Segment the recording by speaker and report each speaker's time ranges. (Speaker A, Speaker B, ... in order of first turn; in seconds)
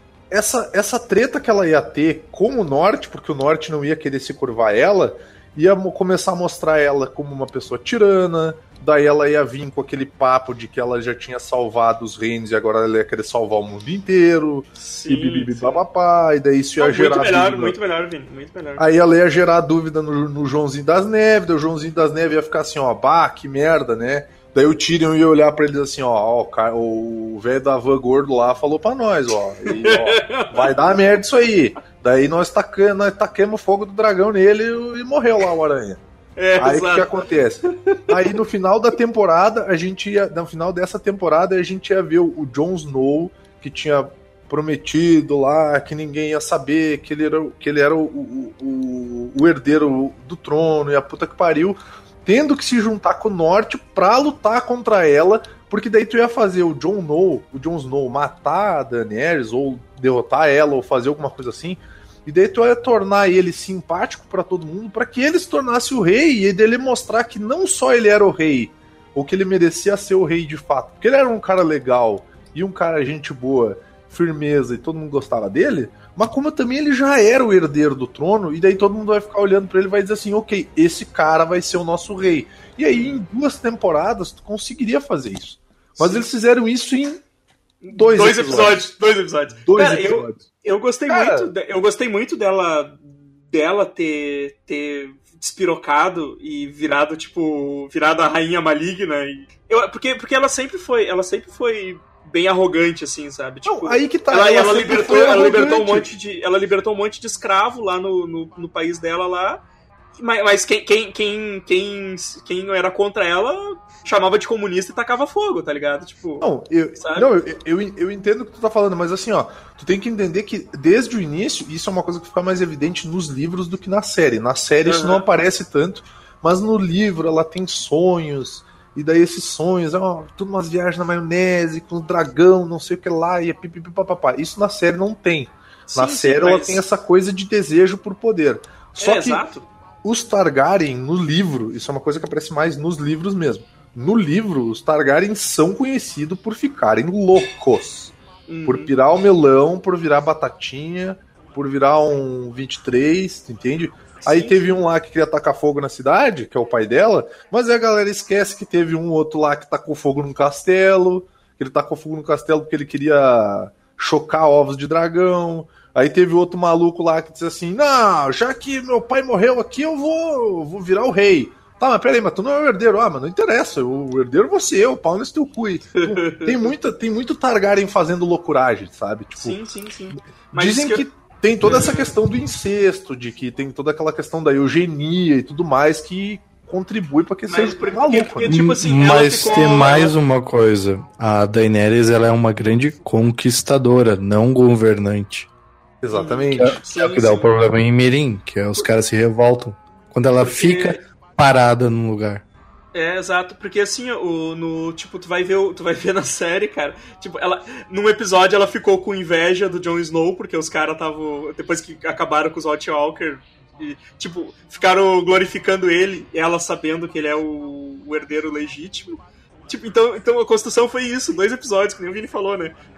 Speaker A: 0.3-17.8, 18.8-36.0, 36.6-87.2, 87.9-88.8, 89.7-90.5, 91.1-91.5, 103.7-106.1, 116.4-139.5, 140.0-148.1, 148.7-179.6, 180.5-188.6, 196.0-196.8
Speaker B: 14.8-15.8, 16.8-18.9, 29.7-30.8, 36.4-37.1, 37.9-38.2, 82.9-83.2, 86.0-86.3, 87.8-109.6, 110.2-117.3, 124.9-125.3, 135.9-136.8, 139.0-139.7, 148.5-148.9, 154.2-154.8, 176.0-176.7, 179.4-181.1, 181.6-182.2, 187.5-190.2, 196.1-197.5, 200.4-201.0, 202.9-222.8
Speaker C: 188.5-195.5, 196.5-202.4